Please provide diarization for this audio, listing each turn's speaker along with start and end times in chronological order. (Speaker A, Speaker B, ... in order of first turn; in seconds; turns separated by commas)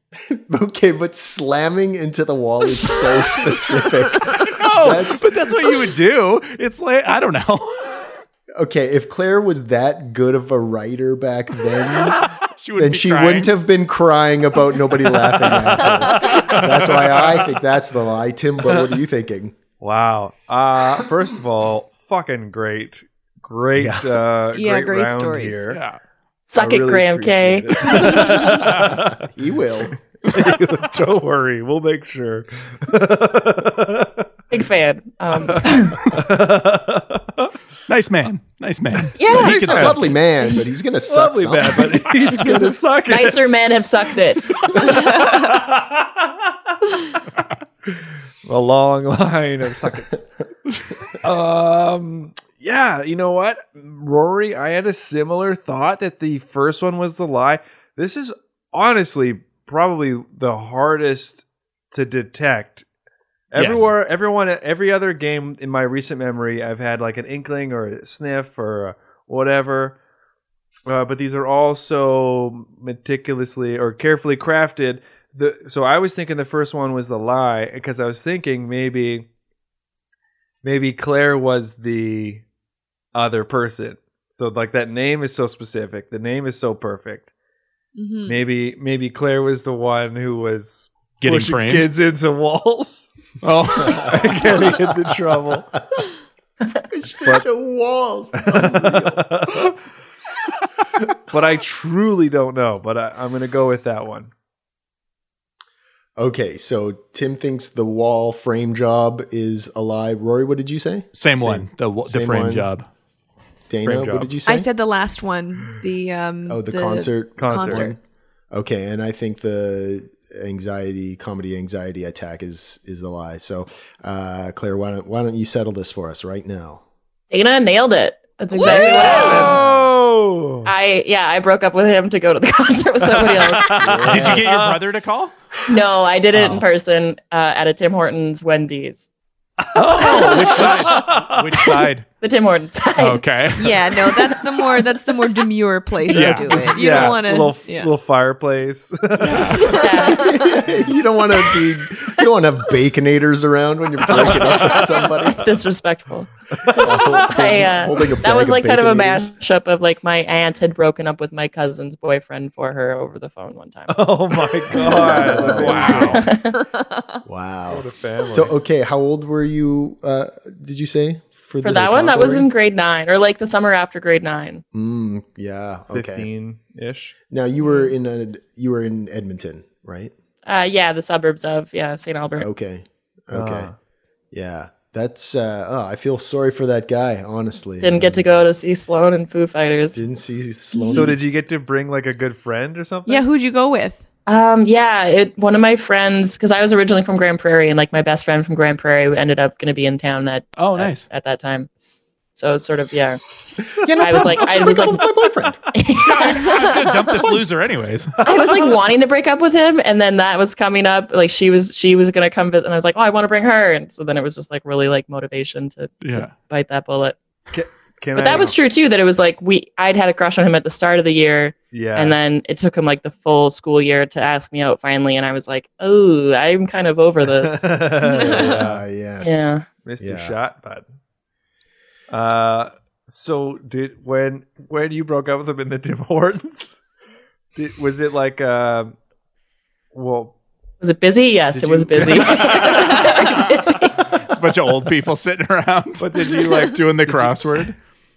Speaker A: 0.3-5.3, Speaker B: 4.5-8.0, Speaker A: 8.6-19.6, Speaker B: 12.1-13.5, Speaker C: 19.8-25.8, Speaker A: 23.8-24.2, Speaker D: 24.5-25.6, Speaker B: 25.7-26.0, Speaker E: 26.5-28.3, Speaker C: 26.6-29.2, Speaker A: 28.4-28.7, Speaker B: 28.5-28.8, Speaker A: 29.3-30.0, Speaker C: 30.2-34.3, Speaker E: 34.5-36.0, Speaker C: 35.5-37.5, Speaker B: 37.9-40.1, Speaker E: 39.2-39.9, Speaker A: 39.3-42.8, Speaker C: 41.1-43.5, Speaker E: 43.1-45.0, Speaker C: 44.7-46.4, Speaker C: 47.9-50.3, Speaker C: 51.2-62.9, Speaker C: 63.5-70.0, Speaker B: 63.6-63.9, Speaker C: 70.9-79.3, Speaker C: 80.6-82.4, Speaker C: 83.1-87.3, Speaker D: 88.0-88.4, Speaker C: 88.3-93.1, Speaker B: 91.2-91.9, Speaker B: 93.4-94.2, Speaker C: 93.8-95.8, Speaker A: 96.9-99.2, Speaker C: 98.4-99.7, Speaker C: 101.3-104.3, Speaker A: 106.2-112.7, Speaker B: 111.1-112.9, Speaker A: 113.7-114.7, Speaker C: 113.8-114.4, Speaker D: 114.5-118.0, Speaker A: 116.5-118.0, Speaker C: 117.4-117.9, Speaker A: 118.5-126.8, Speaker E: 127.3-129.6, Speaker C: 128.6-130.7, Speaker A: 128.9-129.9, Speaker E: 130.7-134.1, Speaker C: 133.1-134.8, Speaker A: 133.8-134.5, Speaker B: 134.0-135.3, Speaker E: 135.7-139.1, Speaker B: 136.3-136.7, Speaker B: 139.8-142.1, Speaker C: 139.8-141.8, Speaker E: 140.1-140.9, Speaker E: 142.2-143.2, Speaker B: 143.0-143.8, Speaker D: 143.6-147.9, Speaker B: 146.1-146.7, Speaker C: 146.1-149.8, Speaker B: 149.2-149.7, Speaker D: 149.6-150.2, Speaker E: 149.8-150.4, Speaker A: 150.1-155.6, Speaker C: 154.1-154.8, Speaker E: 155.3-164.0, Speaker C: 156.7-157.2, Speaker A: 156.7-159.3, Speaker C: 163.9-166.2, Speaker A: 164.9-166.2, Speaker B: 165.5-166.2, Speaker E: 165.8-166.6, Speaker A: 167.3-172.5, Speaker C: 167.7-168.6, Speaker E: 171.6-174.6, Speaker A: 174.7-176.3, Speaker C: 175.9-177.2, Speaker A: 177.3-180.1, Speaker E: 180.4-182.5, Speaker A: 182.4-183.7, Speaker C: 183.3-183.7, Speaker A: 184.3-188.4, Speaker E: 187.8-190.4, Speaker A: 189.9-191.2, Speaker D: 190.7-191.1, Speaker C: 190.9-193.3, Speaker D: 193.1-194.0, Speaker E: 194.3-201.7, Speaker B: 200.6-201.1, Speaker E: 202.4-206.8, Speaker A: 203.8-205.6, Speaker B: 206.0-208.1, Speaker E: 208.2-217.2, Speaker B: 216.0-216.3, Speaker C: 217.5-218.6, Speaker E: 218.2-227.9, Speaker C: 221.7-222.2, Speaker C: 227.3-228.8, Speaker D: 228.1-228.5, Speaker A: 228.2-230.4, Speaker E: 229.2-229.7, Speaker C: 229.8-230.9, Speaker C: 232.1-236.8, Speaker C: 237.6-239.0, Speaker C: 239.9-240.4, Speaker E: 240.8-244.1, Speaker C: 241.5-243.3, Speaker B: 242.3-243.3, Speaker B: 244.2-247.7, Speaker C: 246.0-247.7